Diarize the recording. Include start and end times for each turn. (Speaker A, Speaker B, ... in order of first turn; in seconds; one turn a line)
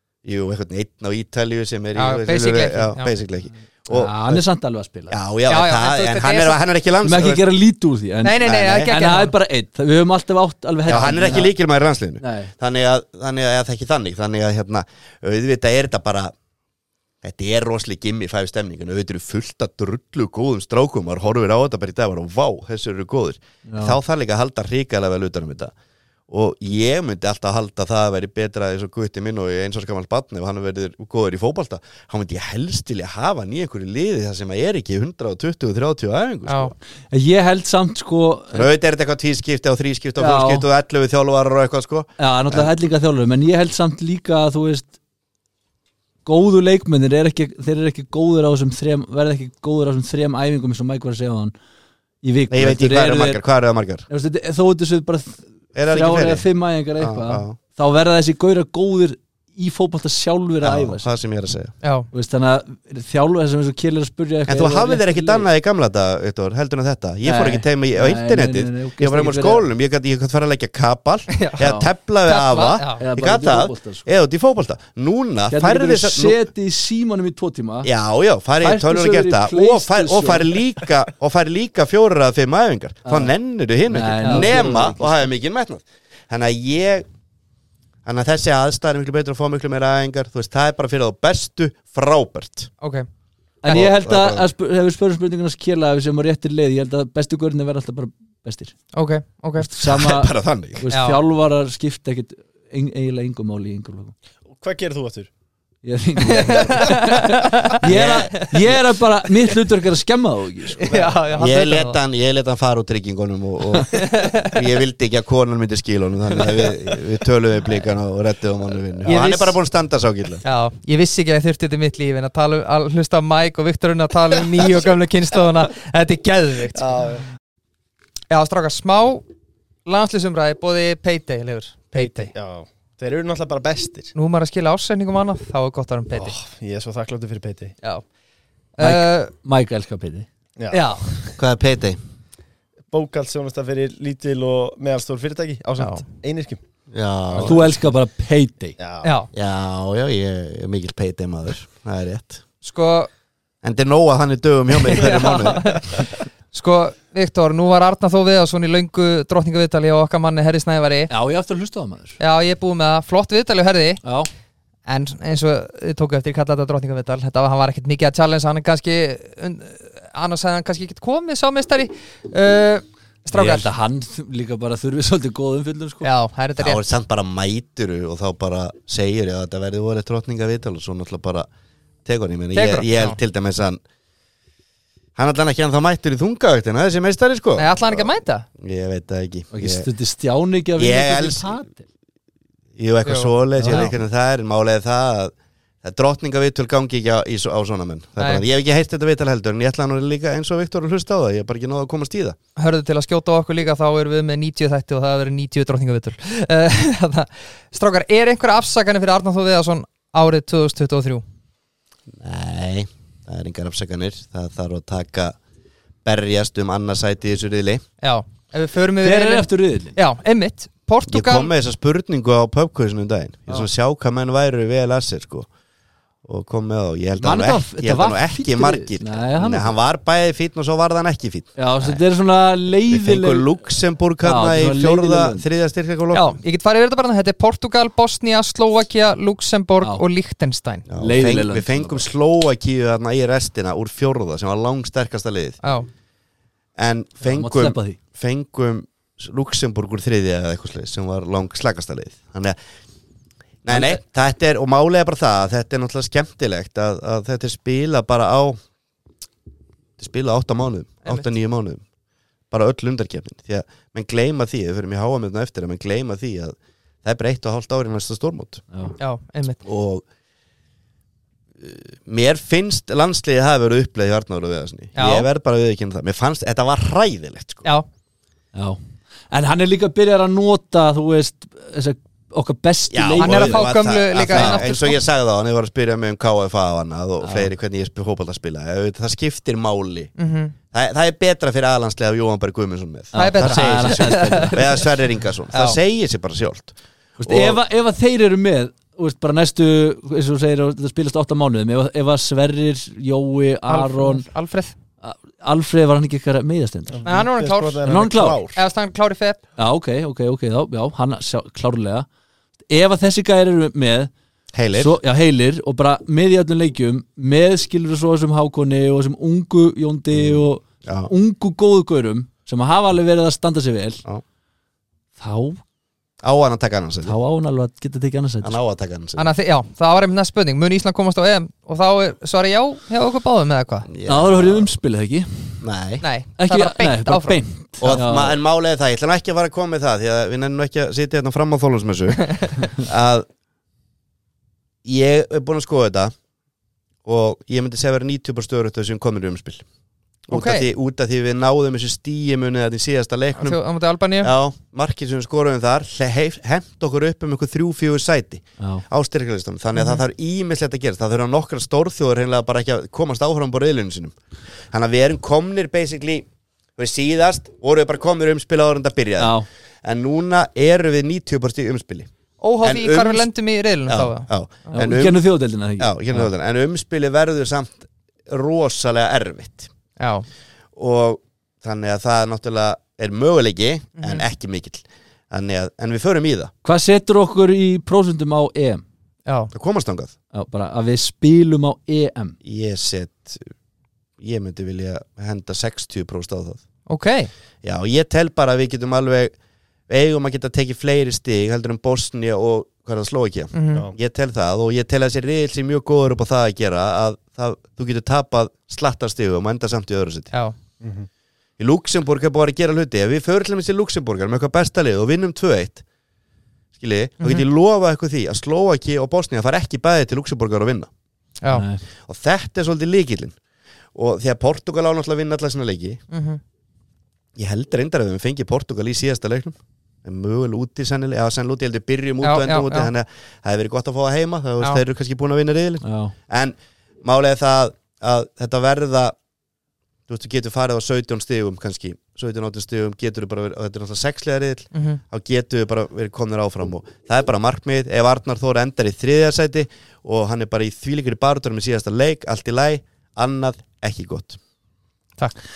Speaker A: 0.2-4.4
Speaker B: 1.9-3.1
Speaker C: 3.9-5.2
Speaker A: 5.1-7.4
Speaker B: 5.5-6.6
Speaker C: 7.0-11.5
Speaker B: 8.2-9.3
Speaker A: 8.4-8.9
Speaker A: 10.9-16.3
Speaker C: 12.2-12.5
Speaker A: 17.2-25.7
Speaker C: 23.6-24.0
Speaker A: 26.3-36.7
Speaker B: 36.5-36.7
Speaker C: 37.1-38.7
Speaker A: 38.5-42.7
Speaker C: 40.2-40.6
Speaker C: 42.2-44.9
Speaker C: 46.2-51.5
Speaker C: 52.2-53.4
Speaker A: 52.5-54.0
Speaker C: 54.1-61.1
Speaker A: 55.7-56.4
Speaker A: 57.0-57.6
Speaker A: 60.6-61.7
Speaker B: 61.8-62.1
Speaker C: 62.1-65.5
Speaker A: 64.5-76.4
Speaker C: 67.2-69.6
Speaker B: 71.3-71.7
Speaker C: 71.6-71.9
Speaker B: 72.2-73.0
Speaker C: 73.0-74.1
Speaker C: 75.5-77.9
Speaker A: 77.8-87.0
Speaker C: 78.6-80.5
Speaker C: 83.0-83.3
Speaker C: 83.9-85.1
Speaker A: 88.0-92.7
Speaker B: 92.8-93.0
Speaker C: 93.6-98.7
Speaker A: 93.7-94.5
Speaker B: 98.9-99.7
Speaker C: 99.6-104.1
Speaker A: 99.8-100.8
Speaker B: 100.9-101.2
Speaker D: 104.5-105.3
Speaker C: 105.8-110.9
Speaker B: 106.3-108.5
Speaker A: 107.8-108.8
Speaker D: 110.8-111.5
Speaker B: 110.9-112.0
Speaker A: 111.4-120.4
Speaker B: 113.9-114.6
Speaker B: 119.1-119.5
Speaker C: 119.1-119.4
Speaker B: 120.4-127.0
Speaker D: 126.7-127.2
Speaker B: 128.3-129.2
Speaker B: 129.8-132.3
Speaker D: 131.9-134.1
Speaker B: 134.1-136.3
Speaker D: 136.1-137.7
Speaker B: 138.8-139.3
Speaker C: 138.8-140.3
Speaker D: 140.6-141.3
Speaker B: 140.7-141.0
Speaker A: 141.4-142.0
Speaker D: 142.9-146.6
Speaker B: 145.8-146.0
Speaker A: 146.9-147.7
Speaker D: 147.3-147.7
Speaker C: 147.4-148.8
Speaker D: 148.8-149.1
Speaker B: 149.0-149.3
Speaker A: 149.3-152.4
Speaker B: 152.6-153.1
Speaker A: 153.6-155.8
Speaker B: 154.8-161.1
Speaker C: 161.1-162.2
Speaker B: 162.2-164.0
Speaker C: 164.0-164.3
Speaker B: 164.8-173.7
Speaker C: 173.3-176.1
Speaker B: 176.0-176.8
Speaker A: 176.6-181.5
Speaker A: 182.0-183.8
Speaker B: 182.5-183.2
Speaker A: 185.2-189.9
Speaker B: 187.6-188.4
Speaker C: 189.5-191.8
Speaker A: 190.8-191.5
Speaker A: 192.8-202.4
Speaker B: 193.0-193.9
Speaker C: 193.6-193.9
Speaker B: 198.2-198.4
Speaker B: 202.6-211.2
Speaker A: 212.1-215.3
Speaker A: 216.0-217.8
Speaker B: 218.0-221.5
Speaker C: 219.0-219.9
Speaker A: 221.1-225.5
Speaker A: 226.2-232.0
Speaker C: 227.2-229.7
Speaker C: 231.6-233.5
Speaker A: 232.9-236.4
Speaker C: 234.2-235.4
Speaker B: 236.1-240.9
Speaker A: 240.9-245.6
Speaker C: 241.0-242.0
Speaker B: 245.6-245.9
Speaker A: 246.8-252.6
Speaker C: 247.2-248.0
Speaker A: 253.6-258.6
Speaker C: 253.7-254.0
Speaker A: 260.0-261.8
Speaker A: 262.5-268.6
Speaker B: 269.0-269.6
Speaker A: 269.6-270.0
Speaker A: 271.6-277.7
Speaker B: 274.9-275.3
Speaker C: 278.5-278.8
Speaker C: 279.3-283.7
Speaker A: 282.9-290.1
Speaker B: 283.2-285.0
Speaker C: 284.3-284.6
Speaker C: 287.2-287.5
Speaker B: 290.2-290.5
Speaker A: 290.7-297.6
Speaker C: 293.1-294.6
Speaker B: 293.1-294.6
Speaker B: 295.5-295.8
Speaker C: 297.2-304.2
Speaker B: 303.7-304.7
Speaker C: 305.0-307.0
Speaker D: 306.9-308.5
Speaker B: 307.0-307.9
Speaker C: 307.9-308.4
Speaker B: 308.5-309.4
Speaker C: 309.6-312.1
Speaker C: 312.7-314.1
Speaker A: 314.5-315.0
Speaker C: 314.8-324.0
Speaker A: 320.1-321.1
Speaker C: 325.2-325.6
Speaker A: 326.2-327.1
Speaker C: 327.0-328.6
Speaker A: 328.4-329.2
Speaker B: 329.1-333.9
Speaker A: 333.9-334.7
Speaker C: 334.0-335.6
Speaker A: 335.6-336.0
Speaker B: 336.0-337.4
Speaker C: 336.4-338.4
Speaker A: 337.8-343.2
Speaker B: 342.2-342.5
Speaker A: 344.8-346.1
Speaker A: 347.0-349.6
Speaker A: 350.3-353.6
Speaker B: 350.3-350.6
Speaker B: 353.4-354.3
Speaker A: 354.2-364.1
Speaker C: 358.6-358.8
Speaker B: 359.8-360.0
Speaker A: 364.7-372.1
Speaker C: 369.2-369.4
Speaker B: 372.4-374.8
Speaker A: 372.6-373.3
Speaker A: 373.9-375.2
Speaker C: 374.7-376.3
Speaker A: 375.8-379.7
Speaker B: 380.0-380.3
Speaker A: 380.8-386.5
Speaker B: 384.0-384.2
Speaker C: 386.6-388.8
Speaker B: 389.2-389.5
Speaker A: 389.5-390.1
Speaker C: 390.3-392.4
Speaker A: 392.4-393.5
Speaker A: 394.2-396.6
Speaker B: 396.9-397.3
Speaker A: 397.6-399.3
Speaker A: 399.9-410.3
Speaker B: 403.5-403.9
Speaker D: 410.8-411.1
Speaker A: 411.6-415.8
Speaker A: 416.8-420.9
Speaker C: 421.5-421.8
Speaker A: 422.1-423.4
Speaker A: 423.9-426.0
Speaker B: 426.1-426.4
Speaker A: 427.4-439.1
Speaker B: 432.2-432.9
Speaker C: 435.8-436.1
Speaker A: 440.1-454.4
Speaker B: 444.7-445.0